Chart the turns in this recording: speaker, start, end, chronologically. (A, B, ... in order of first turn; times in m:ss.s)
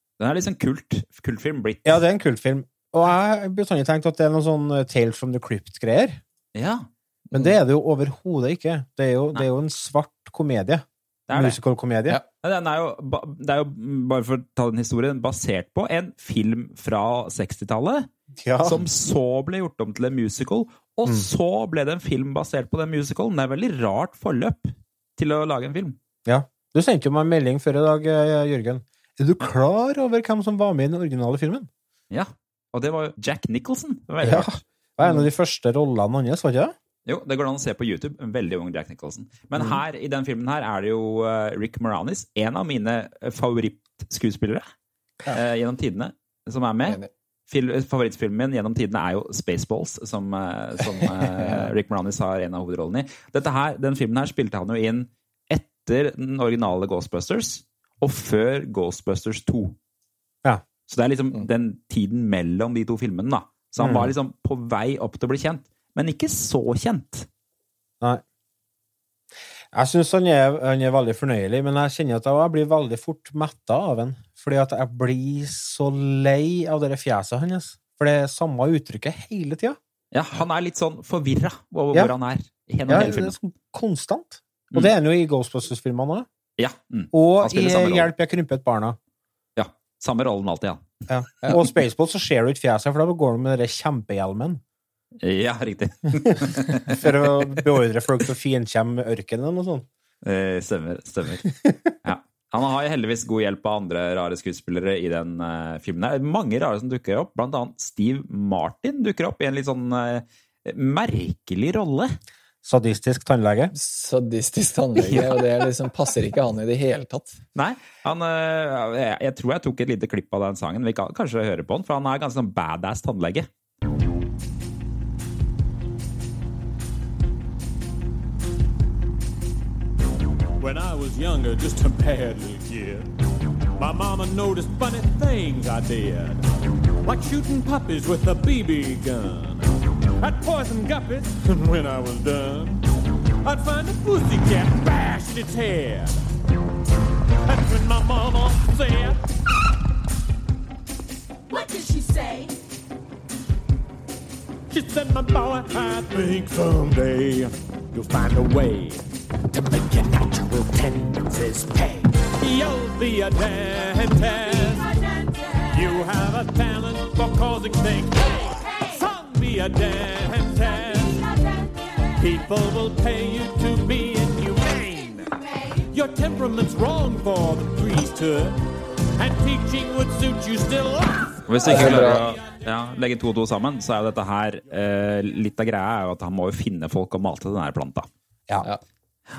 0:00.2-0:02.0 A
0:01.8-0:06.2 B
0:06.5-0:06.9 A
0:07.3-0:12.2 B
0:11.3-0:11.6 A
0:12.4-0:18.1 A
0:18.4-0:18.8 B
0:18.6-0:26.0 A
0:26.2-0:31.7 B
0:32.1-0:34.6 A
0:34.2-0:36.7 B
0:37.0-0:44.6 A
0:45.3-0:59.8 A
0:51.2-0:51.7 C
1:00.9-1:07.3 A
1:03.8-1:04.1 B
1:09.7-1:19.8 B
1:20.1-1:23.4 A
1:22.9-1:26.3 B
1:26.6-1:28.1 A
1:27.1-1:29.0 B
1:29.6-1:30.9 A
1:31.1-1:34.6 B
1:35.2-1:37.1 A
1:36.9-1:39.9 B
1:40.2-1:41.5 A
1:42.0-1:52.2 A
1:52.6-1:53.7 B
1:53.7-1:57.4 C
1:55.0-1:55.5 A
1:57.6-2:03.5 A
2:10.6-2:13.1 D
2:13.8-2:16.5 D
2:17.0-2:19.7 D
2:20.2-2:22.8 D
2:23.4-2:26.2 D
2:27.4-2:29.2 D
2:34.7-2:45.0 D
2:45.6-2:51.4 D
2:52.2-2:58.6 D
2:59.2-3:01.4 D
3:01.5-3:08.1 A
3:01.6-3:02.2 C